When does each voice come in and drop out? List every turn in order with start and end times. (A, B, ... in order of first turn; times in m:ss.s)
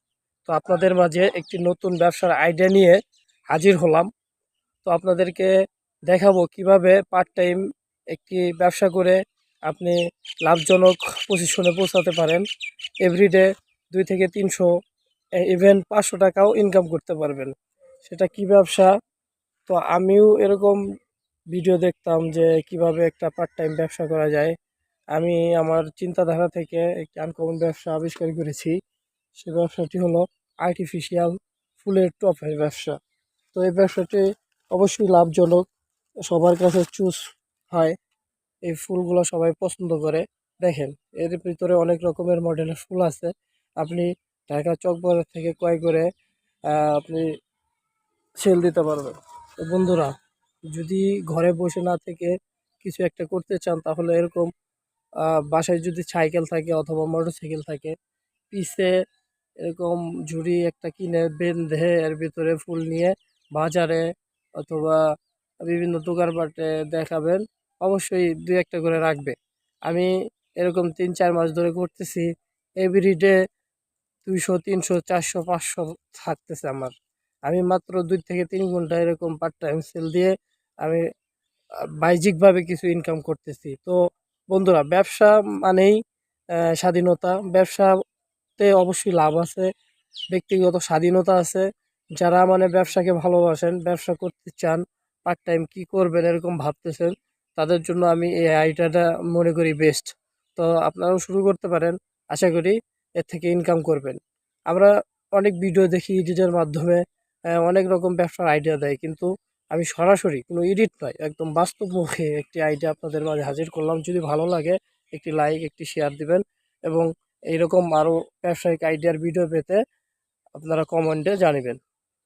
0:00.5-0:03.0 A
0:03.5-0:04.1 A
0:04.8-0:05.5 A
0:06.1-0:12.4 A
0:13.0-0:14.7 A
0:15.4-0:17.5 A
0:18.0-0:18.9 A
0:19.7-0:20.8 A
0:21.5-0:24.6 A
0:25.1-0:28.8 A
0:29.4-0:33.0 A
0:33.5-0:35.6 A
0:36.3-0:37.2 A
0:38.7-0:46.1 A
0:46.7-0:47.3 A
0:48.4-0:50.1 A
0:50.7-0:54.5 A
0:55.2-0:57.9 A
0:58.5-0:58.9 A
0:59.6-1:04.1 A
1:04.6-1:05.0 A
1:05.6-1:09.4 A
1:09.9-1:12.3 A
1:12.8-1:13.4 A
1:14.2-1:16.9 A
1:17.5-1:20.3 A
1:22.0-1:24.0 A
1:24.5-1:26.0 A
1:26.7-1:27.9 A
1:28.6-1:29.7 A
1:30.3-1:31.6 A
1:32.2-1:44.2 A
1:44.7-1:59.8 A
2:00.6-2:01.8 A